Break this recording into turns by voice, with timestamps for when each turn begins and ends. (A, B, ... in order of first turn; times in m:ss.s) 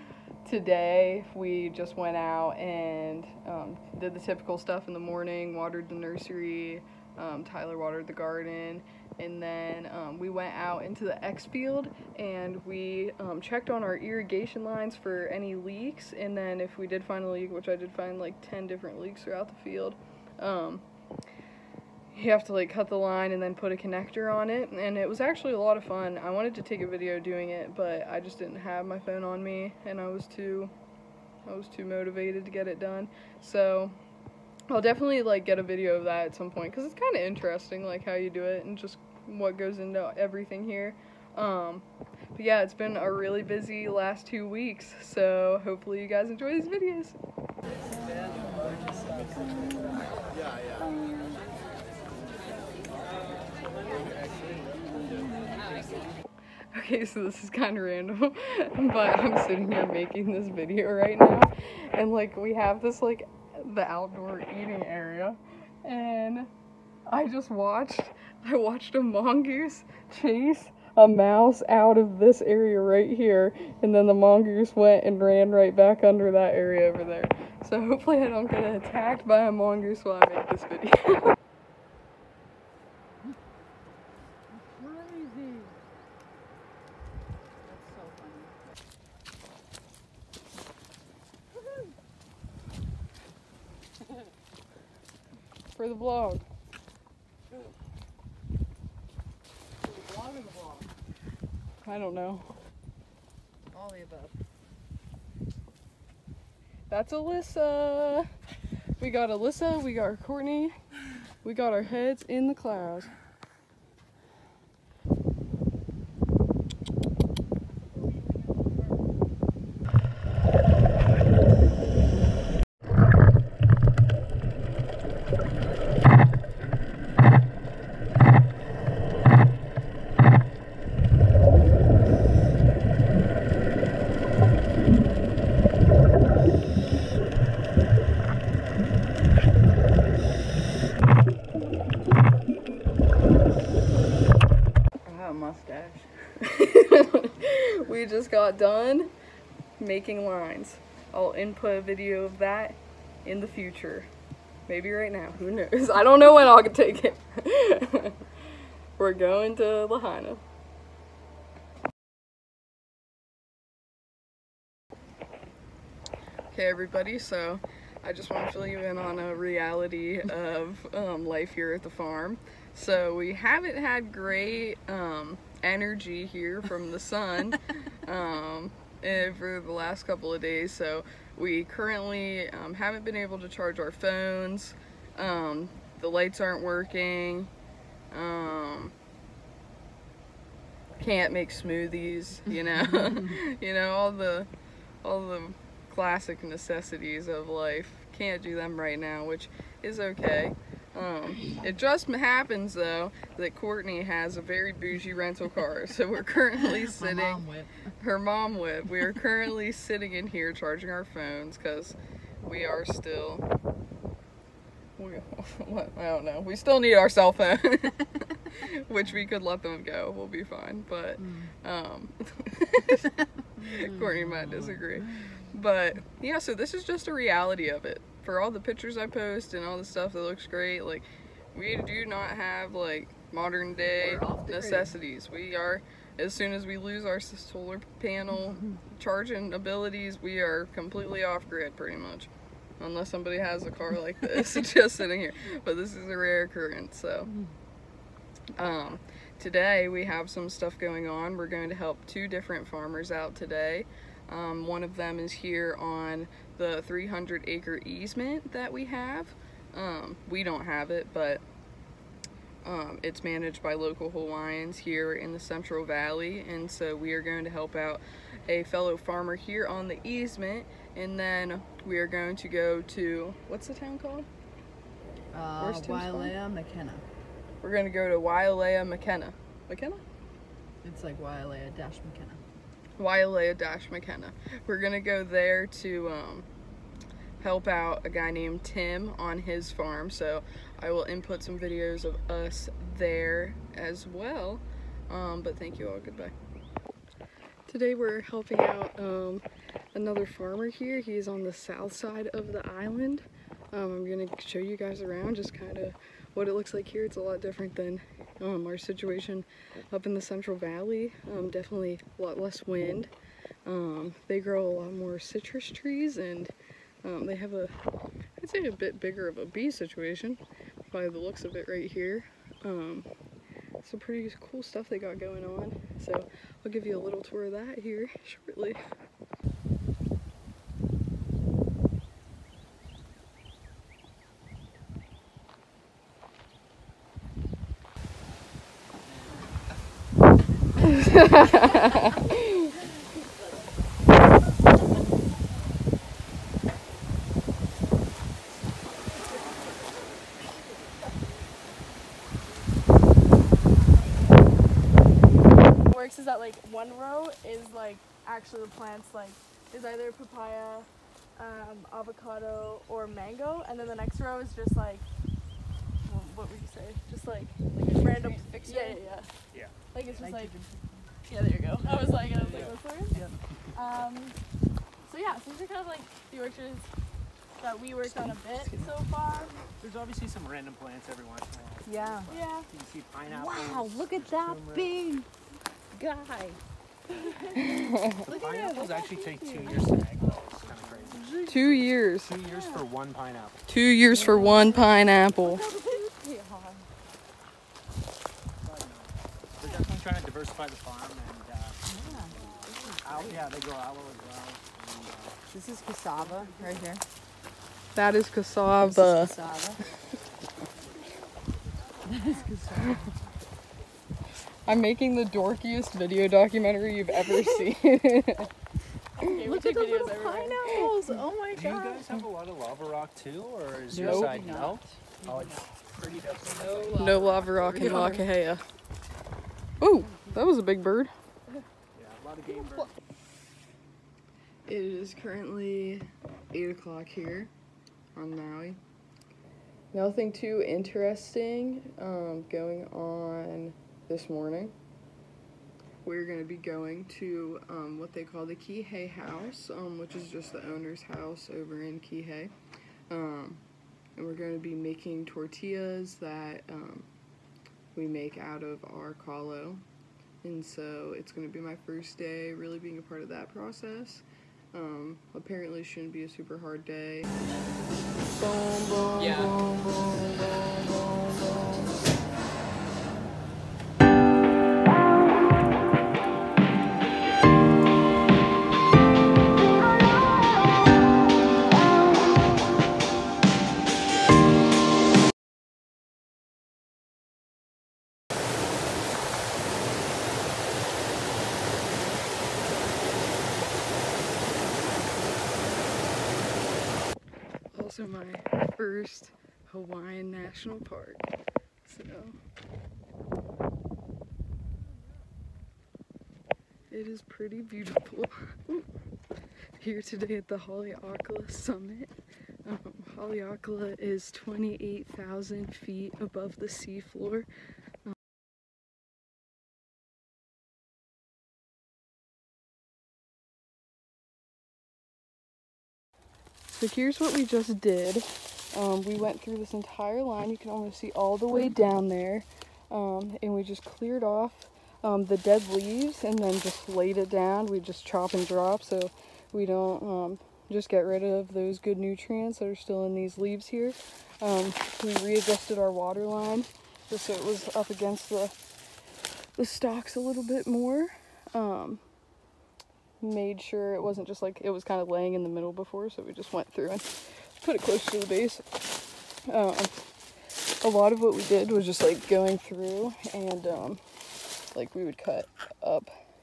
0:00.4-0:20.9 A
0:22.1-0:30.7 A
0:31.5-0:34.0 A
0:34.7-0:47.2 A
0:48.5-0:49.6 B
0:56.7-1:06.5 A
1:07.1-1:21.4 A
1:24.5-1:25.8 B
1:27.6-1:28.6 B
1:35.7-1:36.4 A
1:39.8-1:40.9 B
1:41.8-1:42.5 A
1:43.7-1:44.3 B
1:46.9-1:48.3 A
1:49.0-1:50.8 A
1:51.4-1:53.1 A
2:25.0-2:26.1 B
2:26.4-2:29.1 A
2:29.8-2:34.1 A
2:34.7-2:38.2 A
2:39.0-2:40.4 A
2:46.5-3:07.5 A
3:08.1-3:09.0 A
3:11.0-3:14.5 A
3:15.0-3:33.4 A
3:26.6-3:27.9 B
3:35.0-4:07.4 A
3:41.2-3:41.5 B
3:43.6-3:45.3 B
3:54.0-3:54.9 B
4:08.6-4:21.4 A
4:22.6-4:34.3 A
4:35.3-4:37.1 B
4:35.6-4:36.4 A
4:37.6-4:40.0 A
4:40.8-4:42.4 B
4:43.0-4:46.5 A
4:47.4-4:56.4 A
4:57.7-5:13.1 A
5:13.6-5:17.7 A
5:18.4-5:23.1 A
5:23.8-5:28.8 A
5:40.8-5:42.7 A
5:53.9-5:54.5 C
5:55.8-6:05.1 C
6:06.0-6:09.3 C
6:07.8-6:09.0 B
6:09.9-6:10.6 C
6:10.2-6:11.1 B
6:11.3-6:13.2 C
6:12.3-6:13.4 D
6:12.4-6:12.7 B
6:13.7-6:14.4 C
6:15.0-6:16.9 C
6:17.6-6:19.5 C
6:19.8-6:25.0 D
6:21.9-6:22.3 B
6:22.3-6:22.7 C
6:23.3-6:25.3 B
6:25.9-6:26.6 B
6:27.3-6:27.7 C
6:27.6-6:28.2 A
6:28.2-6:31.3 D
6:28.4-6:29.9 C
6:31.1-6:31.7 B
6:31.4-6:32.4 A
6:32.2-6:33.6 D
6:32.5-6:32.8 B
6:33.7-6:35.6 A
6:34.1-6:34.9 B
6:35.5-6:36.9 B
6:38.6-6:45.4 D
6:39.7-6:40.0 B
6:41.9-6:43.4 B
6:45.5-6:47.0 B
6:46.2-6:46.8 D
6:47.9-6:49.3 A
6:48.8-6:49.8 B
6:52.1-6:53.1 B
6:54.7-6:58.5 A
6:59.2-7:00.8 C
6:59.4-7:02.2 B
7:01.5-7:07.0 D
7:03.9-7:05.6 B
7:06.5-7:08.2 B
7:07.0-7:08.6 A
7:09.8-7:11.1 A
7:12.0-7:12.9 D
7:14.7-7:17.5 A
7:18.2-7:18.8 A
7:19.9-7:24.8 A
7:26.0-7:32.5 A
7:33.1-7:33.6 A
7:34.2-7:37.1 A
7:37.9-7:39.8 A
7:40.4-7:47.3 A
7:48.3-7:52.0 A
8:17.7-8:21.3 A
8:21.8-8:22.4 A
8:26.9-8:28.9 A
8:29.8-8:37.5 A
8:46.7-9:08.5 A
9:09.6-9:12.0 A
9:13.2-9:17.1 A
9:17.6-9:18.6 A
9:19.5-9:19.9 A
9:20.8-9:24.0 A
9:24.7-9:26.1 A